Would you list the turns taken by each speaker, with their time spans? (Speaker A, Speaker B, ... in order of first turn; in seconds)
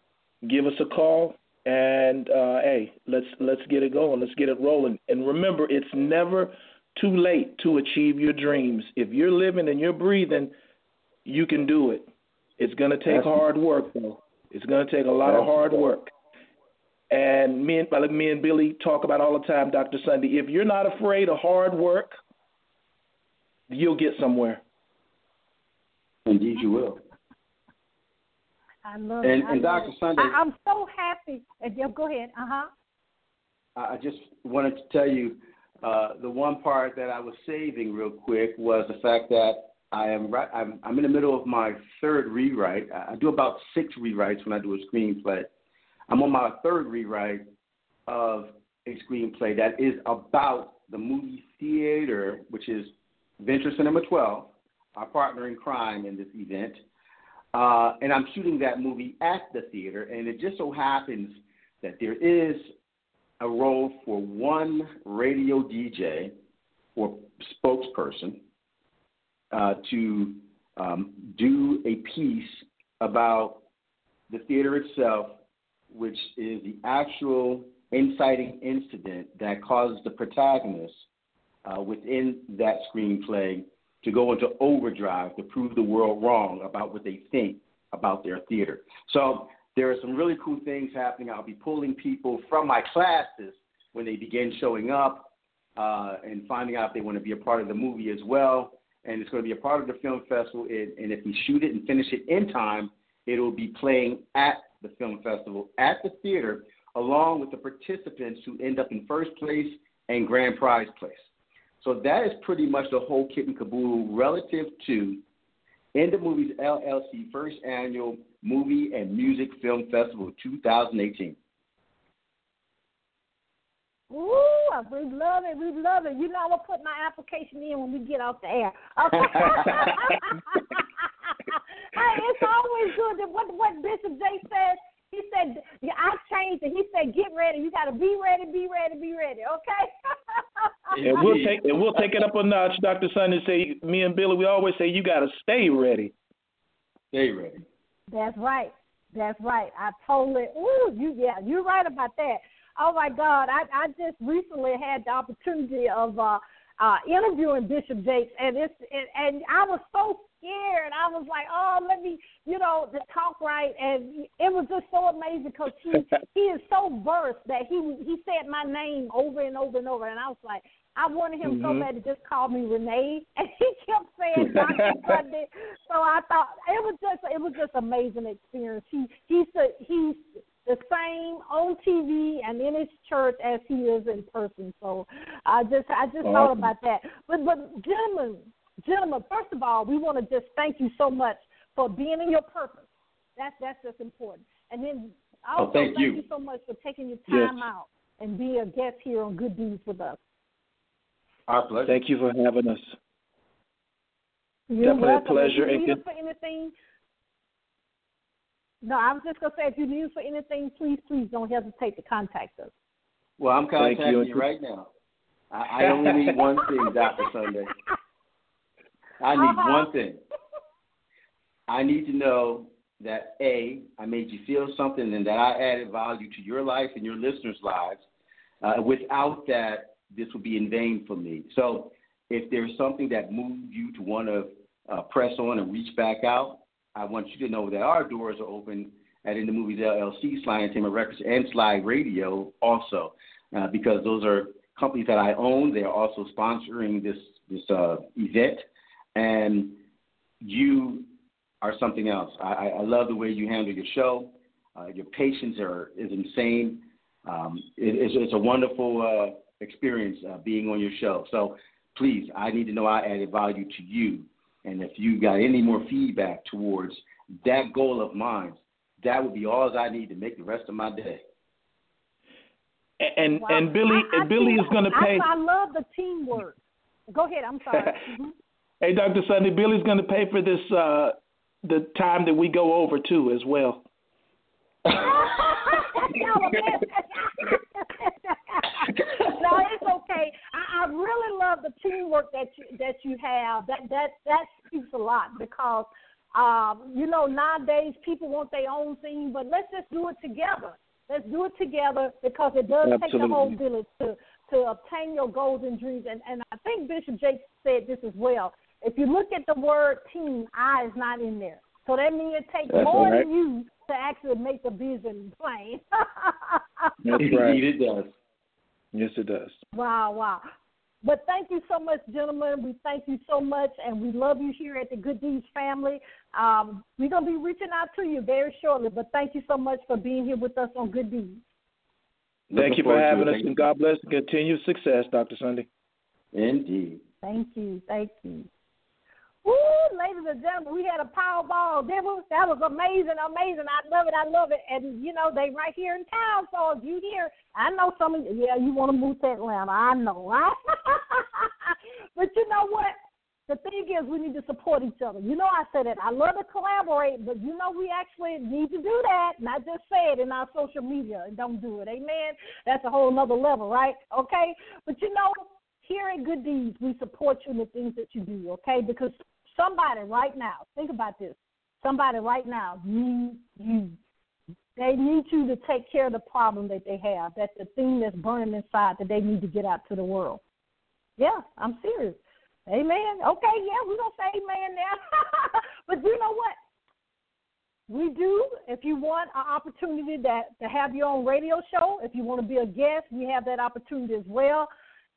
Speaker A: 0.4-10.5, 11.2-16.1, 17.1-22.2, 23.7-24.6, 141.0-146.1, 171.4-171.9, 197.3-197.6, 201.9-202.9, 204.8-206.0, 213.8-214.4, 273.0-275.3, 278.8-283.8, 302.8-303.6, 312.8-313.3, 317.0-317.6, 318.9-319.6, 332.5-335.7
Speaker B: 13.1-13.3, 15.2-15.8, 26.3-27.0, 29.2-30.4, 33.8-45.5, 46.1-47.5, 48.1-56.8, 57.5-62.7, 63.4-66.3, 67.0-68.4, 69.5-73.6, 74.3-75.4, 75.9-81.0, 81.7-111.2, 111.8-115.2, 116.0-121.4, 140.9-142.2, 147.1-147.6, 195.6-196.2, 201.5-202.0, 213.4-214.9, 215.5-217.7, 219.2-220.2, 221.7-228.0, 228.6-249.8, 250.4-251.1, 251.6-271.2, 312.7-313.1, 317.2-318.1, 332.5-333.6, 336.3-337.0
Speaker C: 28.9-32.7, 124.1-130.9, 131.5-141.0, 148.1-200.2, 204.7-206.7, 208.8-212.7, 219.4-219.9, 273.4-276.6, 277.1-278.3, 284.9-316.9, 319.7-320.4, 321.0-331.4, 337.2-338.5, 339.4-353.0, 353.5-374.0, 374.8-380.4, 381.2-386.6, 387.9-394.7